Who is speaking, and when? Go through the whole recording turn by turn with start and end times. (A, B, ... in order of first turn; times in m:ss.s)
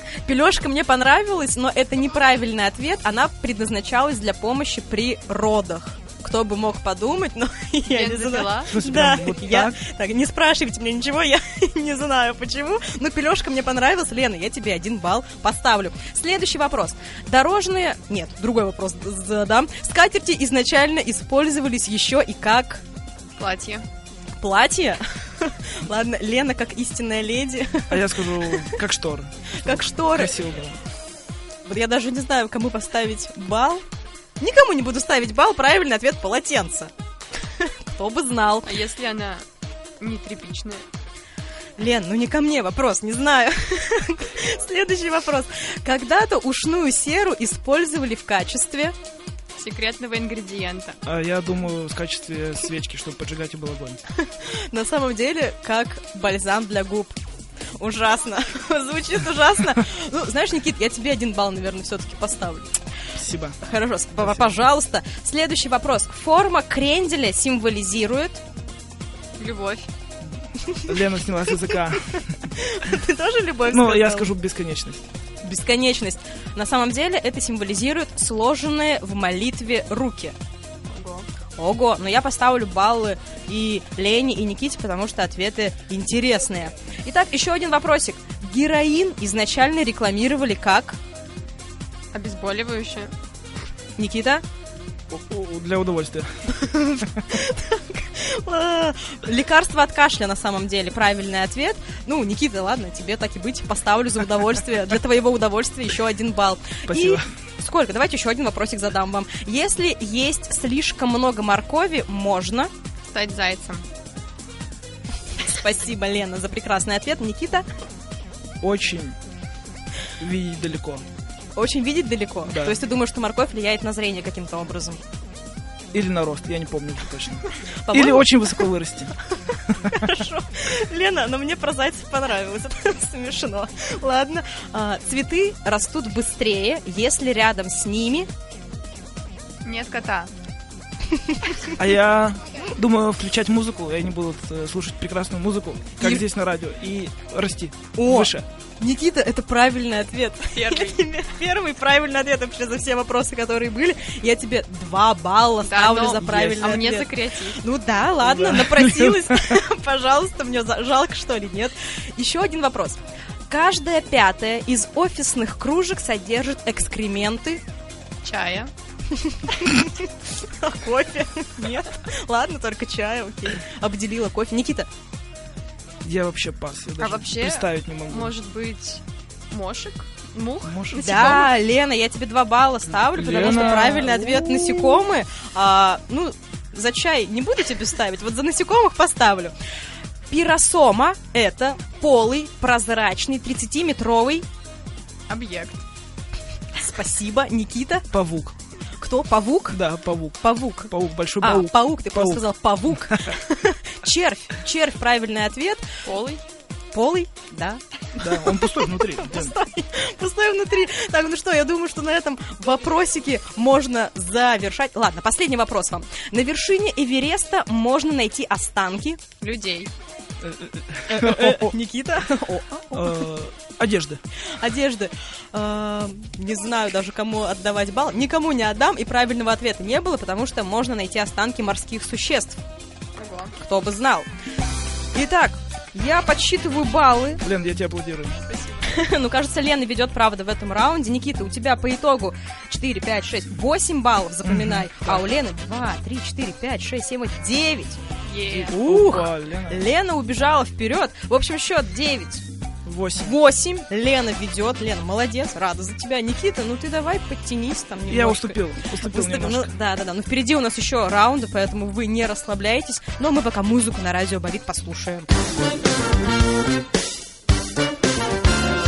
0:00.2-0:22.8 A
0:07.9-0:08.7 B
0:08.7-0:09.8 C
0:23.4-0:23.8 B
0:24.4-0:28.7 A
0:27.9-0:30.8 C
0:29.6-0:30.3 A
0:31.6-0:33.8 A
0:34.4-0:36.9 A
0:37.5-0:38.7 A
0:38.6-0:39.4 B
0:40.0-0:40.8 B
0:41.8-0:48.9 A
0:49.6-0:51.0 B
0:51.0-0:54.0 C
0:54.2-0:57.2 A
0:57.8-1:02.7 A
1:03.1-1:03.6 C
1:03.6-1:08.4 A
1:04.2-1:04.5 C
1:09.4-1:09.9 B
1:10.6-1:11.0 A
1:10.8-1:12.4 C
1:12.5-1:14.3 A
1:13.7-1:15.1 C
1:15.4-1:20.4 A
1:20.9-1:21.2 B
1:21.6-1:31.0 A
1:32.1-1:33.1 B
1:34.0-1:34.4 A
1:35.1-1:36.5 C
1:36.5-1:52.7 A
1:46.9-1:47.2 C
1:53.1-1:53.8 B
1:55.4-1:57.6 A
1:58.6-1:59.2 C
2:00.2-2:01.0 C
2:01.6-2:05.0 A
2:02.5-2:02.8 C
2:05.9-2:09.1 C
2:07.8-2:08.3 A
2:09.7-2:10.0 C
2:09.8-2:18.3 A
2:19.6-2:20.3 B
2:21.1-2:21.7 A
2:21.8-2:28.4 C
2:27.9-2:47.6 A
2:30.5-2:31.0 B
2:35.6-2:37.6 B
2:36.2-2:36.8 C
2:38.2-2:39.6 C
2:48.2-2:48.7 B
2:49.1-2:54.9 A
2:56.0-2:58.3 C
2:57.0-3:01.5 B
3:00.6-3:01.5 C
3:00.9-3:09.5 A
3:03.1-3:05.0 C
3:10.3-3:14.4 A
3:15.3-3:15.8 B
3:16.8-3:18.1 A
3:18.1-3:18.5 C
3:19.0-3:19.8 A
3:19.7-3:22.4 C
3:20.4-3:26.0 A
3:23.0-3:23.3 C
3:26.0-3:26.4 B
3:26.9-3:39.2 A
3:28.2-3:29.5 C
3:39.4-3:39.9 B
3:40.4-3:41.7 C
3:41.1-3:43.2 A
3:42.9-3:44.2 C
3:44.6-3:52.6 A
3:53.2-3:53.5 B
3:53.6-3:54.3 A
3:55.1-3:57.4 A
3:57.4-3:58.4 C
3:58.5-3:58.9 B
3:58.8-4:08.0 A
4:04.4-4:05.2 C
4:08.2-4:08.7 B
4:08.5-4:09.8 C
4:08.7-4:12.4 A
4:12.8-4:13.3 C
4:13.2-4:25.3 A
4:18.1-4:19.7 C